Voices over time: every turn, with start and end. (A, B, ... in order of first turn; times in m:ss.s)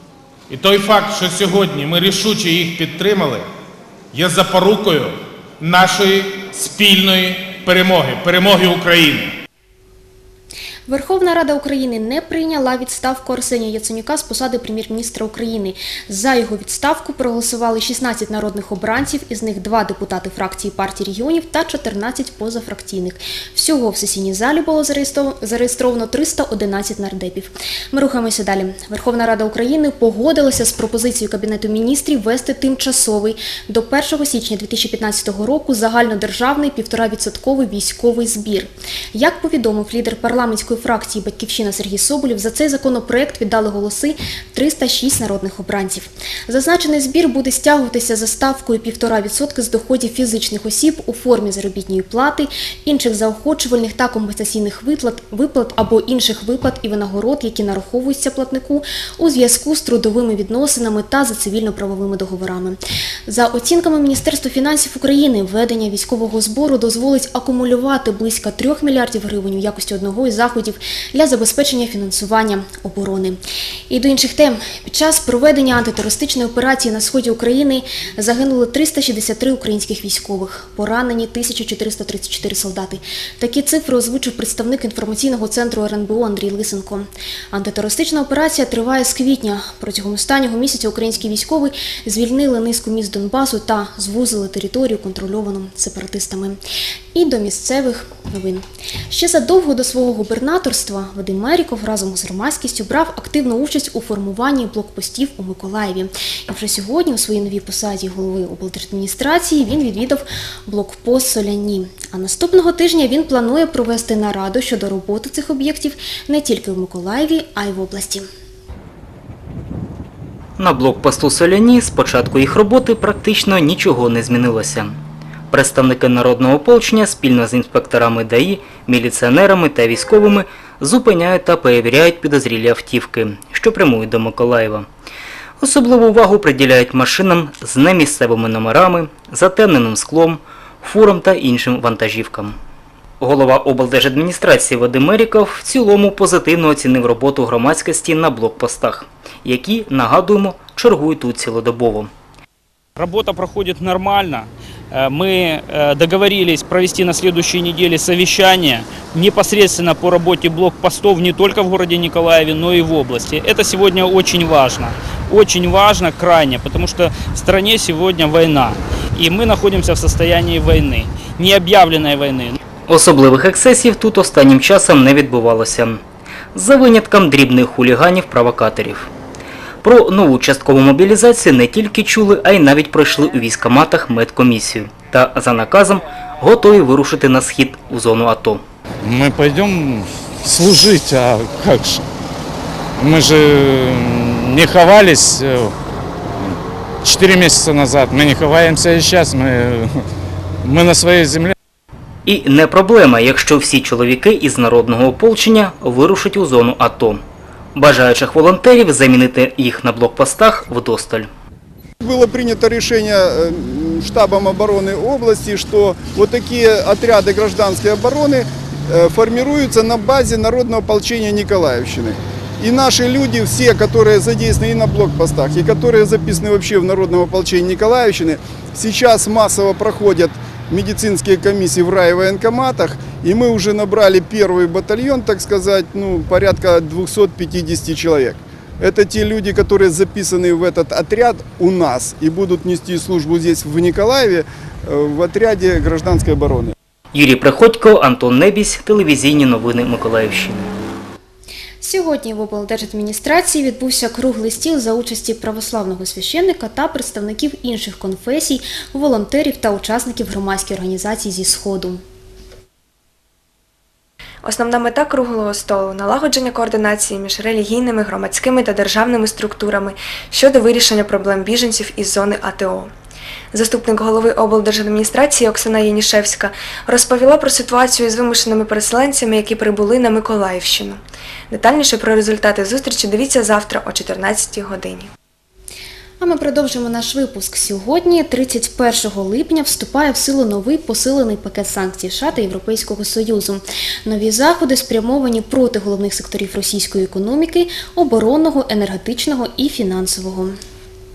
0:00.5-0:03.5 A
0:04.1-0:09.3 A
0:10.9-1:13.4 B
1:13.9-1:36.6 B
1:37.1-1:58.3 B
2:00.6-2:05.0 C
2:05.5-2:14.9 C
2:15.6-2:22.6 C
2:23.2-2:32.1 C
2:33.0-2:52.6 D
2:52.9-2:56.0 C
2:56.5-2:59.1 C
2:59.8-3:08.6 C
3:09.1-3:09.9 E
3:10.5-3:12.0 E
3:13.1-3:15.7 E
3:17.1-3:19.6 E
3:20.7-3:21.5 E
3:22.3-3:27.2 C
3:27.8-3:31.3 C
3:32.0-4:06.7 F
4:07.1-4:10.7 C
4:11.8-4:22.0 B
4:24.4-4:32.9 G
4:33.5-4:45.1 G
4:46.2-5:00.6 B